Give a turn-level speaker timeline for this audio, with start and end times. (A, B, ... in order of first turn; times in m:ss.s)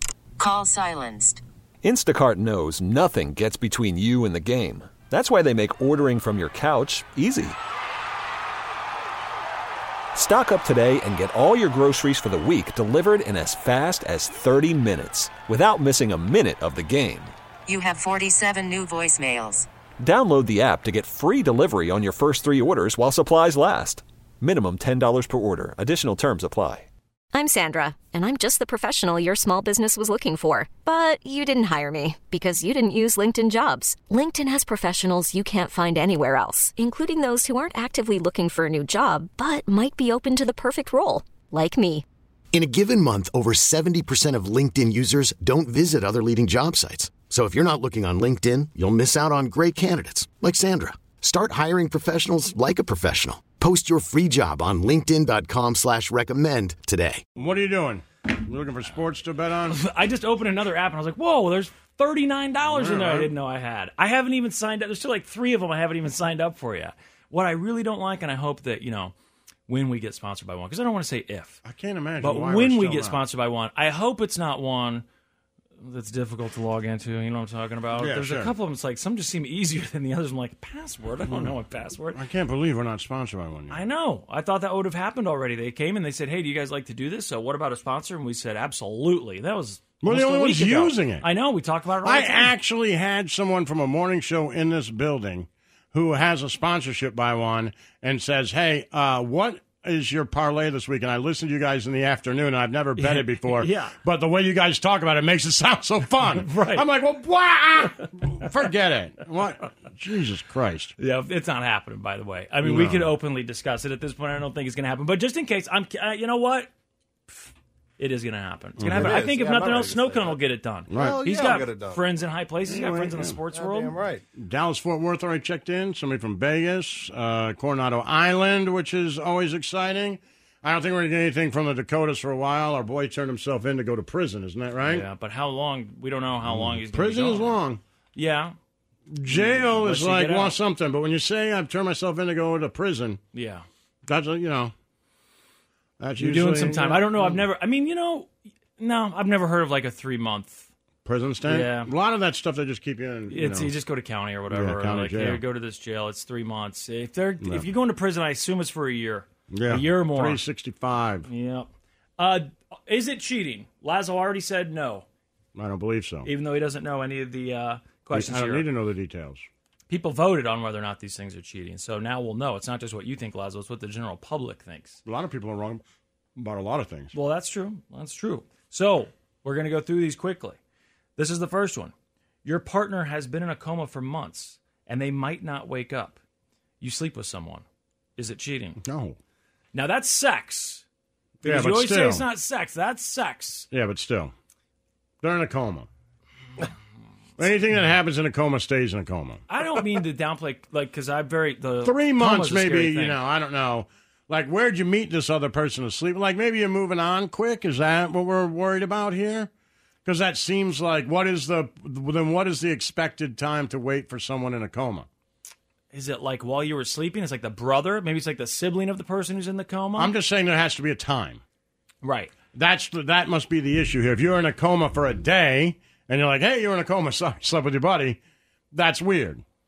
0:00.4-0:01.4 A
0:01.8-0:07.6 B
0:10.1-0:17.3 B
0:17.7-0:19.7 A
0:20.0-0:26.9 B
0:27.3-0:42.0 C
0:42.5-0:57.2 D
0:57.4-0:59.8 E
0:59.7-1:09.1 F
1:02.6-1:03.3 E
1:09.7-1:11.6 F
1:11.6-1:13.2 E
1:12.2-1:15.0 F
1:15.8-1:22.2 F
1:18.0-1:18.5 E
1:22.1-1:23.8 E
1:23.7-1:32.5 F
1:30.0-1:31.2 E
1:32.0-1:50.9 E
1:43.0-1:43.9 F
1:46.4-1:46.8 F
1:51.0-1:56.7 F
1:52.6-1:53.1 E
1:58.0-2:04.0 F
1:58.8-1:59.2 E
1:58.8-2:00.4 G
2:00.9-2:01.4 E
2:00.9-2:02.0 G
2:02.7-2:03.4 E
2:03.5-2:04.2 G
2:04.4-2:15.0 E
2:14.8-2:17.6 F
2:16.4-2:17.8 E
2:18.1-2:18.6 F
2:19.1-2:23.2 E
2:19.3-2:20.6 F
2:23.3-2:23.6 F
2:24.0-2:24.7 E
2:26.0-2:27.4 E
2:26.2-2:30.7 F
2:31.0-2:33.7 E
2:31.4-2:31.9 F
2:33.3-2:40.4 F
2:34.5-2:35.4 E
2:39.5-2:41.2 E
2:41.2-2:45.0 F
2:45.5-2:46.3 E
2:46.2-2:48.6 F
2:48.1-2:49.4 E
2:49.9-2:55.0 F
2:55.0-2:55.8 E
2:56.4-2:57.1 E
2:57.1-3:00.6 F
3:01.2-3:01.9 F
3:02.4-3:06.2 F
3:06.8-3:07.6 F
3:08.2-3:08.8 F
3:08.8-3:09.2 E
3:09.7-3:10.8 F
3:11.4-3:13.7 F
3:11.4-3:12.2 E
3:13.7-3:14.3 E
3:15.2-3:15.9 E
3:17.4-3:19.4 E
3:19.5-3:23.2 F
3:21.8-3:29.5 E
3:30.0-3:35.1 E
3:35.9-3:40.1 F
3:40.0-3:41.4 E
3:42.0-3:42.3 F
3:42.5-3:48.2 E
3:48.7-3:49.4 E